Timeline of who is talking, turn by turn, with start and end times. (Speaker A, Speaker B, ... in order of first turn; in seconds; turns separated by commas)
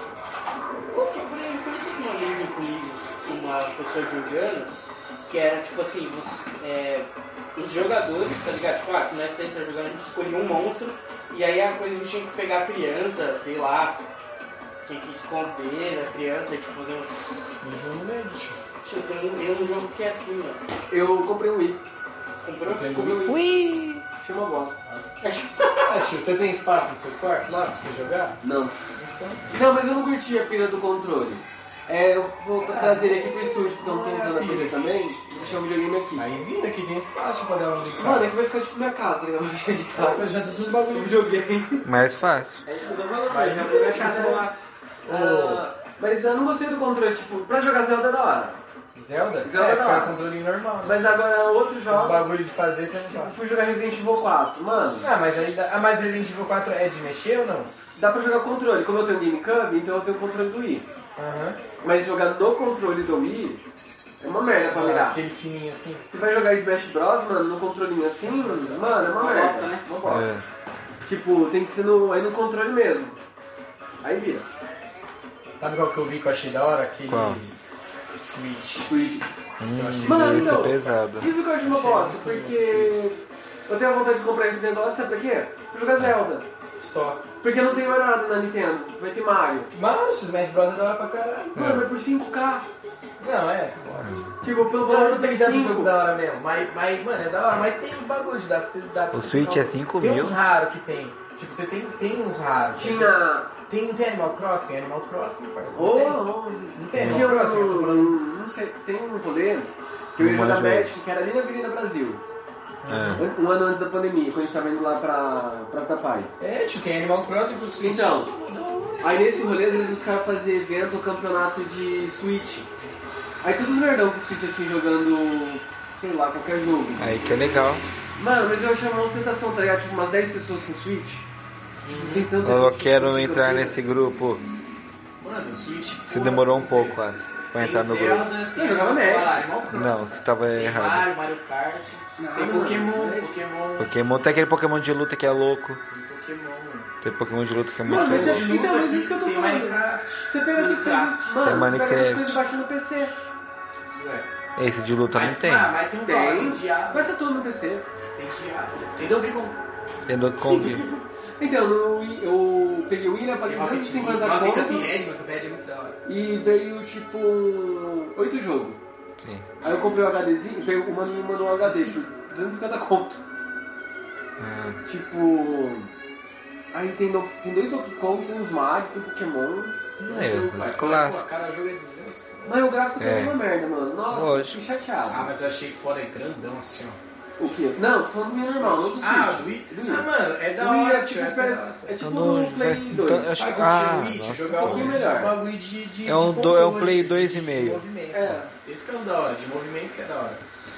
Speaker A: 0.8-14.0, Speaker A: 14.8-17.1, Speaker B: 17.6-18.6, Speaker A: 18.8-20.6, Speaker C: 20.9-21.8, Speaker A: 22.4-23.4, Speaker B: 22.6-23.2, Speaker C: 22.9-23.3, Speaker D: 23.2-24.0, Speaker C: 24.2-24.8, Speaker B: 24.8-25.2, Speaker A: 25.2-25.9, Speaker B: 25.9-28.4, Speaker C: 28.4-28.7, Speaker B: 28.9-29.6, Speaker C: 29.5-36.2, Speaker B: 32.6-35.5, Speaker B: 36.1-38.3, Speaker C: 37.9-41.9, Speaker B: 39.9-41.3, Speaker D: 41.8-42.6, Speaker C: 42.6-44.5, Speaker A: 42.8-44.6, Speaker B: 43.3-44.5, Speaker B: 45.0-45.6, Speaker C: 45.1-48.6, Speaker B: 48.9-51.0, Speaker C: 49.4-50.2, Speaker C: 50.8-52.3, Speaker B: 51.9-53.4, Speaker C: 53.1-55.1, Speaker B: 55.0-57.7, Speaker C: 58.0-60.9, Speaker B: 61.2-61.6, Speaker C: 61.8-63.6, Speaker C: 64.2-65.2, Speaker B: 64.7-66.0, Speaker C: 66.1-70.3, Speaker B: 68.2-68.9, Speaker A: 69.0-69.8, Speaker D: 70.0-70.4, Speaker C: 71.0-73.2, Speaker C: 74.0-74.5, Speaker B: 75.5-77.6, Speaker D: 77.0-77.4, Speaker B: 78.2-78.9, Speaker C: 78.8-79.3, Speaker D: 79.6-81.3, Speaker B: 79.6-80.7, Speaker C: 80.0-86.5, Speaker B: 81.6-83.0, Speaker B: 86.8-87.3, Speaker C: 87.4-89.7, Speaker B: 89.7-91.6, Speaker C: 91.5-92.7, Speaker D: 91.5-91.9, Speaker B: 93.2-94.3, Speaker D: 94.0-94.2, Speaker C: 94.4-95.9, Speaker B: 94.8-108.2, Speaker D: 99.1-100.4, Speaker C: 102.7-103.5, Speaker C: 105.7-112.2, Speaker D: 106.9-107.3, Speaker D: 110.2-110.9, Speaker B: 112.8-113.3, Speaker D: 112.9-113.2, Speaker C: 113.2-116.4, Speaker B: 116.4-119.9, Speaker C: 117.8-118.3, Speaker C: 119.0-122.7, Speaker C: 123.4-127.2, Speaker D: 127.0-127.9, Speaker C: 128.1-131.3, Speaker B: 131.8-132.3, Speaker C: 131.9-133.9, Speaker D: 132.4-134.4, Speaker B: 135.2-137.0, Speaker D: 136.1-138.3, Speaker B: 137.6-143.9, Speaker C: 138.5-139.5, Speaker D: 139.7-141.1, Speaker C: 142.2-143.3, Speaker D: 143.8-145.8, Speaker B: 145.9-146.9, Speaker D: 147.0-148.5, Speaker C: 147.8-153.1, Speaker B: 147.9-150.3, Speaker A: 150.5-151.2, Speaker D: 151.4-152.4, Speaker B: 153.8-154.3, Speaker D: 154.6-155.7, Speaker B: 155.1-157.1, Speaker C: 156.0-157.9, Speaker B: 158.1-159.6, Speaker D: 160.1-160.9, Speaker A: 160.5-160.8, Speaker C: 161.4-165.0, Speaker B: 163.3-166.0, Speaker C: 166.1-168.8, Speaker D: 169.2-169.5, Speaker B: 169.6-170.2, Speaker C: 169.6-173.2, Speaker B: 171.6-172.0, Speaker D: 174.4-174.8, Speaker C: 174.8-175.9, Speaker C: 176.7-179.8, Speaker B: 180.0-182.7, Speaker D: 180.1-181.2, Speaker C: 182.4-185.3, Speaker D: 183.0-183.4, Speaker D: 184.1-184.6, Speaker B: 185.1-187.0, Speaker C: 187.4-193.4, Speaker B: 188.5-192.0, Speaker D: 192.0-195.0, Speaker B: 193.3-200.4, Speaker C: 194.5-195.4, Speaker D: 196.1-197.8, Speaker C: 198.1-198.5